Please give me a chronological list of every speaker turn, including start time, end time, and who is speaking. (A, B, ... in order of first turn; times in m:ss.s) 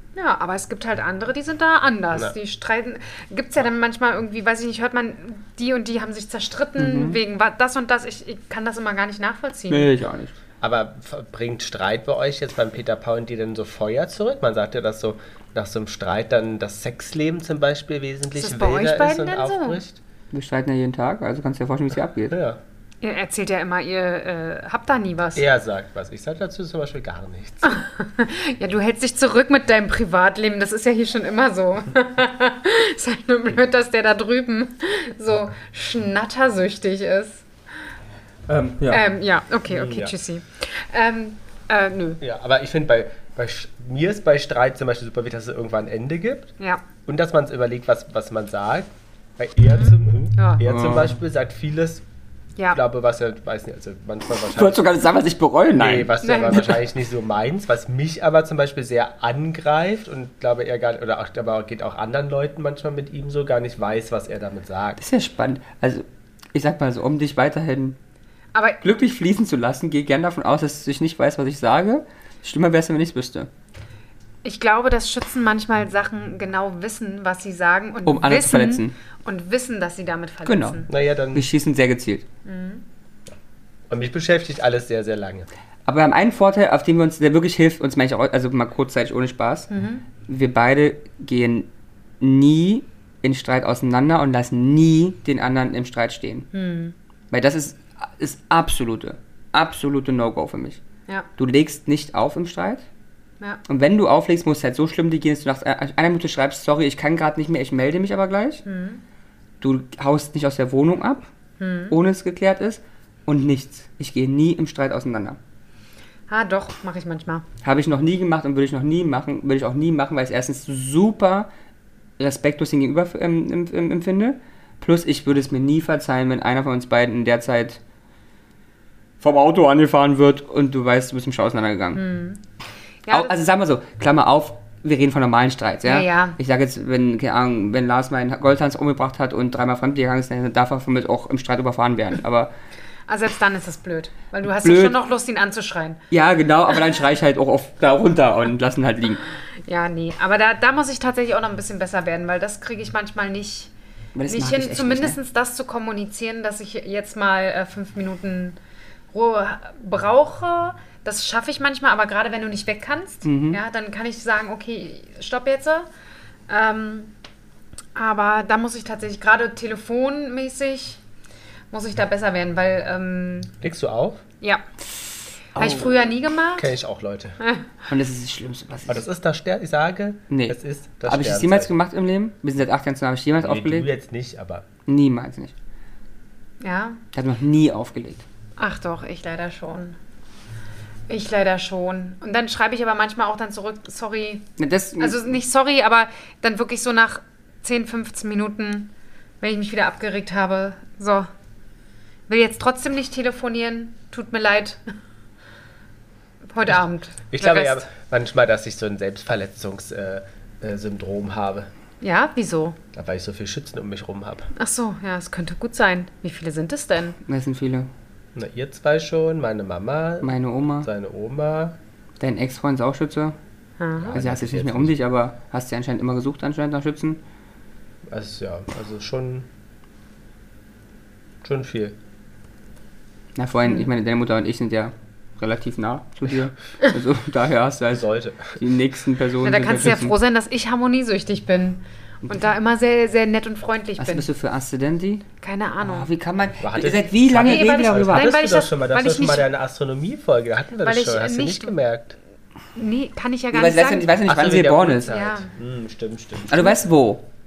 0:00.2-0:09.9 A
0:06.8-0:07.2 B
0:09.7-0:10.3 B
0:10.6-0:20.0 C
0:18.3-0:19.8 A
0:20.3-0:22.4 B
0:22.3-0:22.6 C
0:23.0-0:25.4 A
0:25.4-0:27.8 C
0:27.6-0:37.4 A
0:38.5-0:39.0 B
0:38.9-0:42.2 A
0:39.7-0:40.1 C
0:42.2-0:46.5 C
0:47.0-0:52.0 C
0:49.6-0:50.6 A
0:50.6-0:51.2 B
0:52.7-0:54.9 C
0:54.5-0:56.1 B
0:55.7-1:05.0 C
0:56.2-0:56.8 A
1:05.0-1:08.0 B
1:08.5-1:08.8 A
1:08.8-1:13.5 B
1:14.4-1:20.9 A
1:18.0-1:18.9 B
1:20.4-1:20.8 B
1:20.9-1:21.5 C
1:21.3-1:22.2 B
1:22.4-1:22.8 A
1:23.9-1:25.5 C
1:25.8-1:29.7 B
1:29.7-1:30.0 A
1:30.2-1:31.7 B
1:32.2-1:36.5 B
1:36.5-1:36.9 A
1:37.3-1:40.8 B
1:41.4-1:42.8 B
1:43.7-1:48.6 B
1:48.6-1:49.0 A
1:49.6-1:51.3 B
1:51.6-1:52.0 A
1:51.9-1:55.4 B
1:56.3-1:57.4 A
1:57.6-2:01.5 B
2:02.2-2:07.8 B
2:09.2-2:12.0 B
2:11.9-2:12.4 A
2:13.0-2:13.3 A
2:13.1-2:22.5 B
2:15.8-2:16.4 A
2:23.1-2:26.0 A
2:24.5-2:25.0 B
2:26.1-2:29.2 B
2:29.6-2:33.7 A
2:34.1-2:35.2 B
2:34.3-2:38.6 A
2:39.1-2:45.9 A
2:43.2-2:43.6 B
2:46.5-2:47.1 A
2:47.9-2:51.0 A
2:51.7-2:53.5 A
2:53.6-2:54.2 C
2:54.4-2:54.6 A
2:55.5-2:56.7 A
2:55.6-2:55.9 B
2:56.6-2:57.4 C
2:57.4-2:57.7 A
2:57.9-2:59.0 B
2:58.9-3:01.7 C
3:00.3-3:03.9 B
3:03.4-3:04.6 C
3:04.8-3:05.5 B
3:06.6-3:07.0 A
3:07.1-3:08.2 B
3:08.6-3:10.0 A
3:11.1-3:21.3 A
3:14.6-3:15.4 B
3:22.3-3:24.8 A
3:26.5-3:27.9 A
3:27.3-3:31.7 C
3:32.0-3:32.8 A
3:32.9-3:34.5 C
3:34.6-3:37.2 A
3:37.2-3:37.9 B
3:38.3-3:41.8 C
3:40.2-3:40.9 B
3:42.2-3:43.4 B
3:43.8-3:44.1 A
3:44.0-3:44.9 C
3:44.1-3:47.2 B
3:48.1-3:49.5 C
3:51.4-3:52.0 C
3:53.4-4:00.1 B
3:58.0-3:58.6 C
3:59.4-4:04.3 A
4:02.2-4:02.5 B
4:04.0-4:05.2 B
4:05.4-4:06.1 A
4:05.8-4:08.3 B
4:06.6-4:12.2 C
4:07.3-4:09.5 A
4:10.8-4:11.7 A
4:12.7-4:14.2 A
4:13.5-4:15.1 B
4:14.2-4:16.7 C
4:15.1-4:15.5 A
4:16.5-4:17.2 B